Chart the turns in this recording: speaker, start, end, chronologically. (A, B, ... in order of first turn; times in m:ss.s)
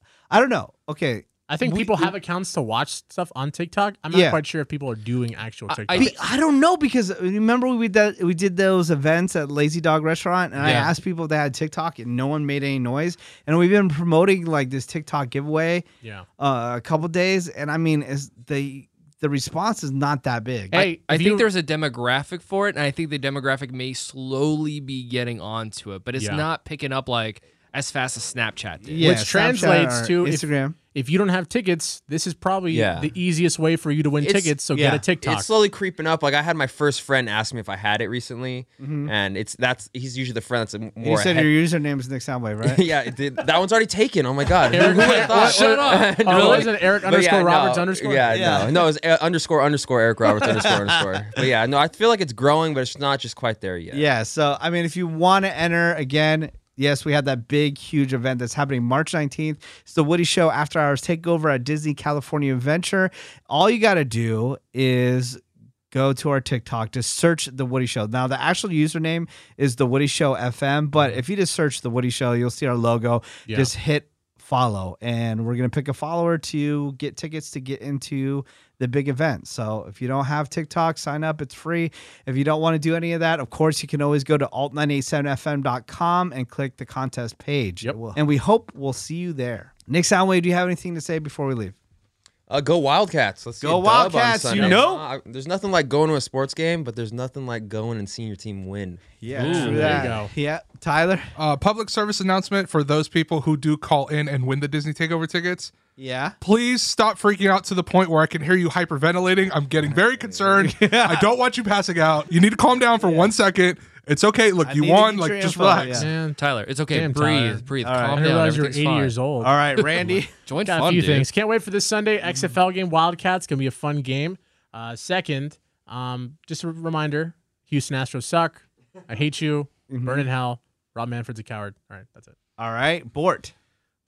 0:00.3-0:02.1 A
0:01.5-0:06.2 B
0:04.1-0:04.4 A
0:05.7-0:06.1 C
0:05.9-0:15.8 A
0:10.6-0:10.9 B
0:10.6-0:10.9 C
0:16.4-0:20.8 A
0:20.7-0:29.1 C
0:20.7-0:21.5 B
0:26.2-0:26.5 B
0:28.8-0:30.8 A
0:29.0-0:35.5 B
0:32.7-0:33.1 D
0:34.2-0:34.5 D
0:34.7-0:35.0 A
0:35.2-0:41.5 D
0:38.8-0:39.1 A
0:41.0-0:42.8 A
0:42.6-0:54.0 D
0:44.7-0:48.6 B
0:44.7-0:46.7 C
0:48.3-0:48.8 A
0:50.2-0:51.4 A
0:53.9-1:31.8 A
1:13.5-1:13.7 B
1:32.5-1:39.2 D
1:33.6-1:35.0 A
1:34.5-1:34.8 B
1:39.2-1:41.3 A
1:39.3-1:40.1 C
1:39.4-1:40.3 B
1:41.4-1:45.8 E
1:46.0-1:46.4 A
1:46.4-1:56.1 E
1:50.6-1:51.3 A
1:53.0-1:53.3 A
1:54.6-1:56.1 A
1:55.9-1:56.4 B
1:56.4-1:59.1 C
1:56.9-1:59.6 B
1:57.8-1:58.2 A
1:59.4-2:00.3 A
1:59.8-2:01.3 C
2:00.7-2:12.4 B
2:09.9-2:10.3 A
2:12.6-2:13.5 A